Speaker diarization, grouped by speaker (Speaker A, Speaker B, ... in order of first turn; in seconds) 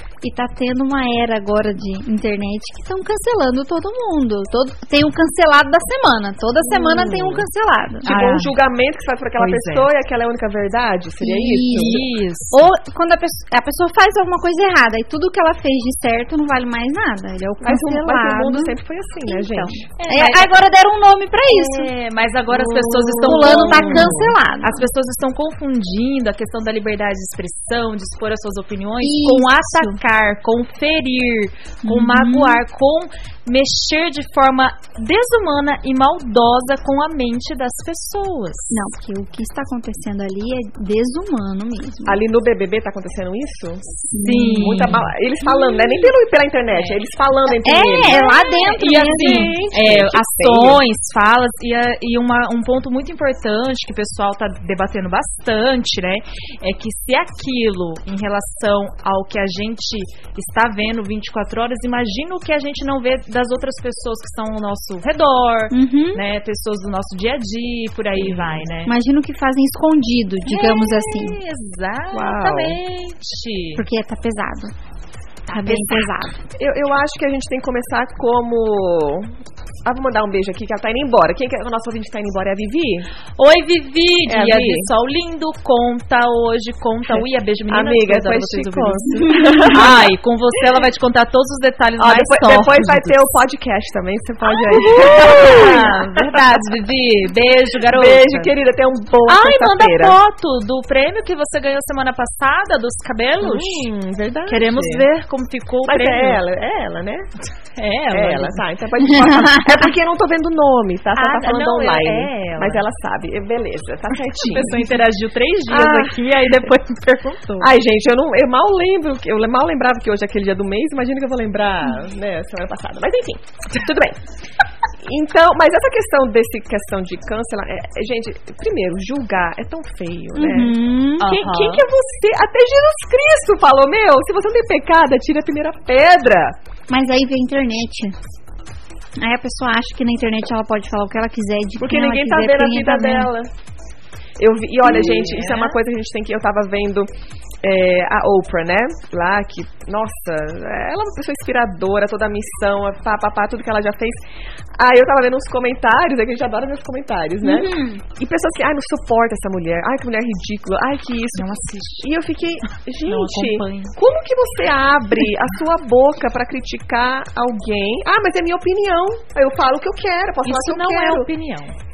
Speaker A: 0.2-8.1, 11.2-12.0, 12.5-18.8, 19.3-21.9, 23.2-24.8, 29.0-30.0, 31.8-32.6, 38.7-42.2, 44.1-44.9, 45.5-46.0, 47.6-49.6, 65.7-66.2, 68.9-71.4, 73.8-74.7, 75.5-76.4, 89.3-89.7, 109.1-109.8, 130.4-131.3, 136.9-138.2, 139.2-143.3, 157.4-158.0
Speaker B: 6.7-7.4, 8.1-12.0, 17.6-19.9, 22.5-24.3, 42.1-44.0, 44.6-50.8, 68.2-68.6, 72.1-72.8, 76.5-79.3, 79.9-83.1, 84.3-84.9, 87.1-90.1, 92.0-96.4, 97.9-100.2, 103.4-105.1, 105.9-107.3, 108.1-114.9, 115.7-116.2, 117.6-124.2, 125.0-136.6, 141.8-143.5, 144.4-147.1, 147.6-154.2, 154.8-161.5, 162.0-171.3
Speaker C: 8.1-8.6, 9.4-9.9, 11.7-12.7, 20.0-20.5, 21.5-38.7, 44.2-45.1, 46.7-47.0, 48.6-68.9, 70.5-73.8, 75.5-76.1, 83.4-93.4, 94.5-98.5, 99.3-103.9, 104.5-106.4, 107.8-108.6, 111.2-112.8, 114.4-117.7, 131.2-131.8, 144.9-145.8, 161.3-162.1, 163.1-163.9, 170.4-171.8